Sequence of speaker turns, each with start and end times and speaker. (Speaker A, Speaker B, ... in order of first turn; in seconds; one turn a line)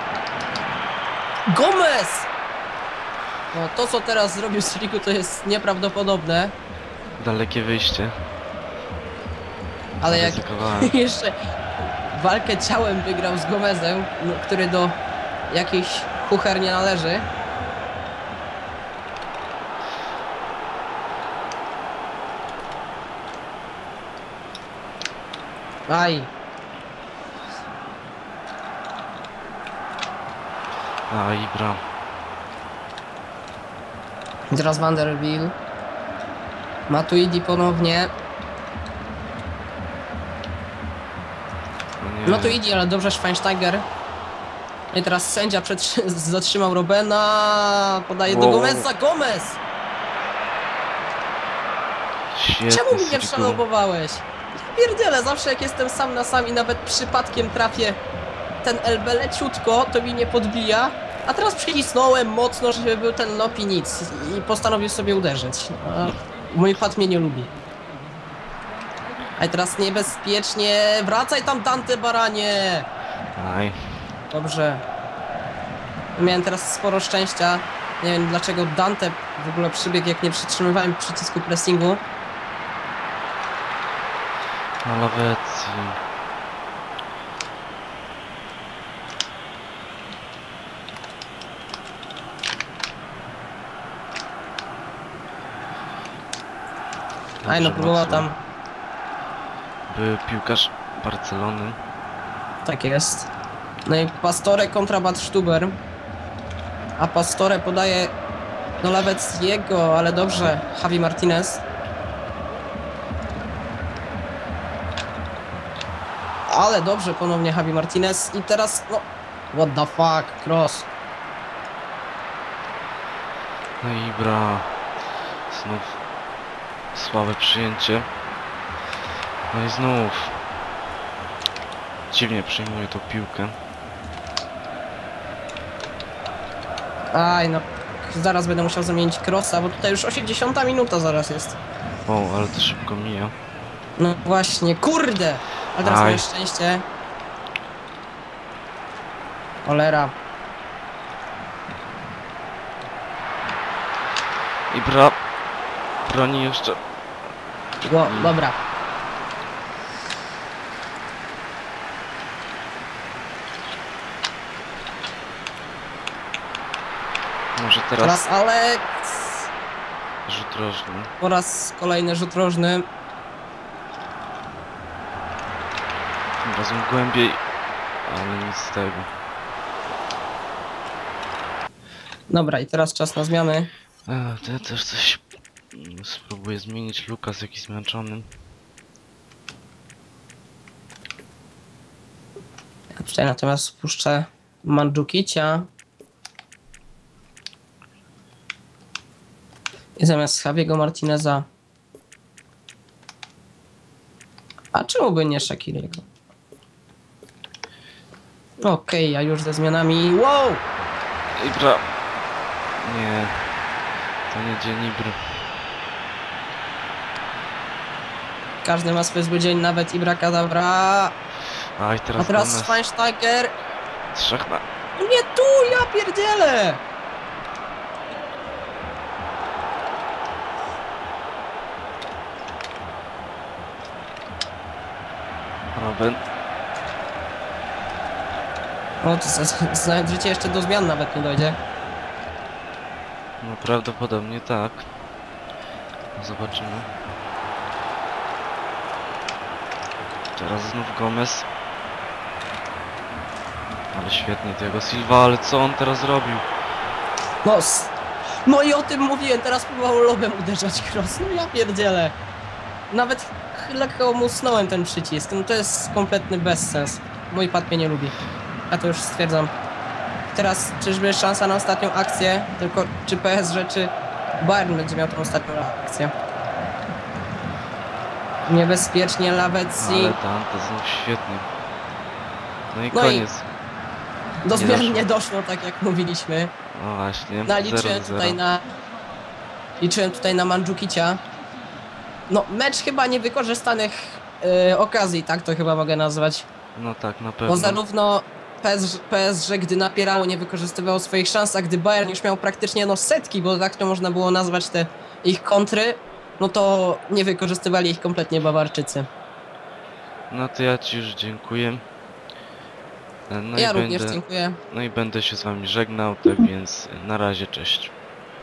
Speaker A: 1.5-2.3
Speaker A: 3.5-6.5
Speaker B: 7.2-8.2
Speaker B: 10.0-10.9
Speaker A: 10.0-15.0
Speaker A: 15.5-17.3
Speaker A: 25.9-26.3
Speaker B: 31.1-31.8
Speaker A: 34.5-35.5
Speaker A: 36.9-38.1
Speaker B: 42.0-42.6
Speaker A: 42.2-43.9
Speaker A: 44.9-49.6
Speaker B: 48.2-48.9
Speaker B: 52.3-53.6
Speaker A: 52.7-58.0
Speaker A: 58.6-67.5
Speaker A: 69.4-72.9
Speaker B: 73.3-73.8
Speaker A: 74.3-74.8
Speaker A: 76.1-82.0
Speaker B: 84.8-86.0
Speaker B: 97.4-98.3
Speaker A: 97.5-98.3
Speaker B: 99.9-101.8
Speaker A: 102.6-103.3
Speaker A: 103.8-105.8
Speaker A: 107.0-108.1
Speaker A: 108.8-111.6
Speaker A: 116.5-120.9
Speaker B: 123.8-124.7
Speaker B: 125.5-126.0
Speaker B: 126.9-128.1
Speaker B: 129.5-130.4
Speaker B: 132.1-133.6
Speaker A: 137.1-141.6
Speaker B: 142.1-143.3
Speaker A: 144.0-146.8
Speaker B: 145.8-146.2
Speaker A: 149.6-150.1
Speaker B: 154.7-155.2
Speaker B: 156.0-156.8
Speaker A: 157.8-158.6
Speaker B: 167.6-168.2
Speaker A: 168.0-169.5
Speaker B: 170.2-171.1
Speaker A: 171.2-172.8
Speaker B: 176.4-177.4
Speaker B: 178.1-179.1
Speaker A: 182.3-183.7
Speaker B: 184.1-188.3
Speaker A: 192.9-195.7
Speaker A: 200.0-201.5
Speaker A: 204.7-206.1
Speaker A: 208.6-210.6
Speaker B: 211.3-211.8
Speaker B: 212.8-213.3
Speaker B: 214.3-215.2
Speaker A: 218.6-221.1
Speaker B: 221.8-222.8
Speaker A: 222.2-223.5
Speaker B: 224.1-224.6
Speaker A: 224.9-226.8
Speaker B: 235.7-236.2
Speaker A: 239.0-241.6
Speaker B: 243.4-244.8
Speaker B: 246.2-246.9
Speaker B: 250.3-251.5
Speaker B: 253.9-256.4
Speaker A: 257.4-257.9
Speaker A: 258.4-262.1
Speaker A: 262.9-268.1
Speaker A: 268.7-269.5
Speaker A: 270.3-276.1
Speaker A: 278.4-280.2
Speaker B: 279.8-281.5
Speaker B: 282.7-283.4
Speaker A: 282.9-283.2
Speaker A: 284.4-286.5
Speaker B: 284.5-285.1
Speaker B: 286.7-288.4
Speaker A: 287.4-288.7
Speaker A: 289.8-291.2
Speaker A: 292.3-296.5
Speaker B: 296.7-297.8
Speaker A: 297.5-309.1
Speaker B: 310.3-311.8
Speaker B: 313.3-317.9
Speaker A: 313.6-314.6